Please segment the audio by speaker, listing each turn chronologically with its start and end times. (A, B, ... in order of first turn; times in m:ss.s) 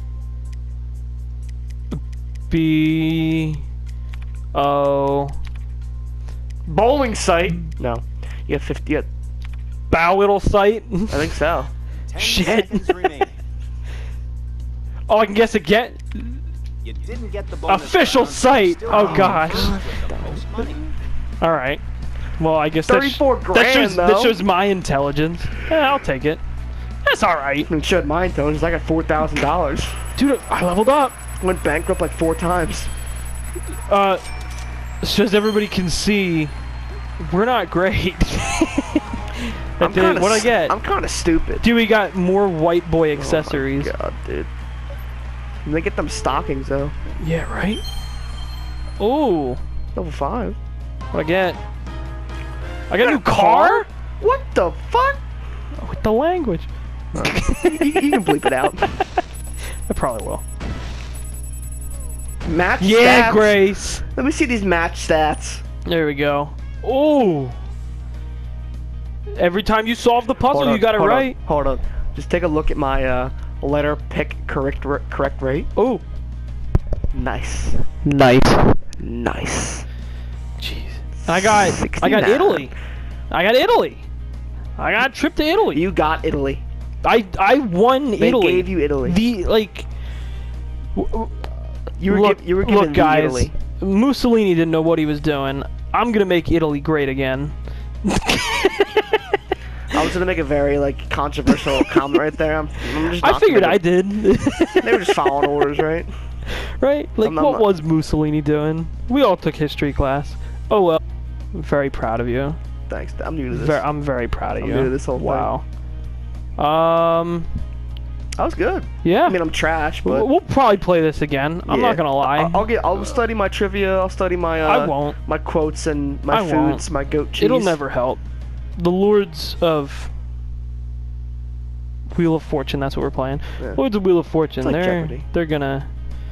0:01.9-0:03.6 A
0:04.5-0:05.4 A
0:06.6-0:09.1 B
0:09.9-0:11.4 A
0:11.1-0:11.7 B
0:12.1-0:13.4 C
0:12.2-0:13.0 A
0:15.1-0:16.4 A
0:16.8-0:20.9 C
0:17.7-0:19.7 A
0:18.9-0:20.9 B
0:21.4-0:21.8 A
0:22.4-0:26.4 A
0:22.8-0:24.4 B
0:27.0-0:27.7 A
0:27.7-0:30.0 B
0:30.2-0:31.2 A
0:31.4-0:32.9 B
0:33.9-0:34.2 A
0:35.0-0:36.5 A
0:37.2-0:40.8 A
0:39.8-0:41.7 B
0:41.6-0:43.9 A
0:43.1-0:44.5 B
0:45.6-0:46.9 B
0:47.2-0:47.8 A
0:49.0-0:49.6 A
0:49.9-0:50.6 B
0:51.1-0:51.6 A
0:52.9-0:53.9 A
0:53.0-0:55.2 B
0:55.7-0:57.8 A
0:57.1-0:58.9 B
0:59.9-1:00.4 A
1:02.4-1:03.6 B
1:02.8-1:04.0 A
1:04.1-1:05.6 B
1:05.8-1:07.6 A
1:09.3-1:11.4 A
1:10.5-1:15.7 B
1:15.7-1:16.0 A
1:17.1-1:17.8 B
1:18.0-1:18.8 A
1:19.0-1:19.9 B
1:20.6-1:22.7 A
1:21.2-1:22.7 B
1:23.3-1:24.0 A
1:24.8-1:25.8 A
1:25.7-1:26.6 B
1:27.0-1:29.8 A
1:28.2-1:29.2 B
1:30.9-1:39.0 A
1:32.0-1:33.5 B
1:39.9-1:43.8 B
1:43.1-1:45.3 A
1:44.8-1:46.1 B
1:46.8-1:51.0 A
1:47.2-1:47.7 B
1:51.5-1:52.6 A
1:52.9-1:53.9 B
1:53.5-1:55.7 A
1:54.6-1:55.5 B
1:56.6-1:57.5 A
1:58.4-2:00.3 B
1:59.0-1:59.4 A
2:00.0-2:02.7 A
2:01.6-2:07.8 B
2:04.6-2:05.2 A
2:06.3-2:08.2 A
2:08.8-2:10.1 A
2:12.1-2:15.9 A
2:14.6-2:15.3 B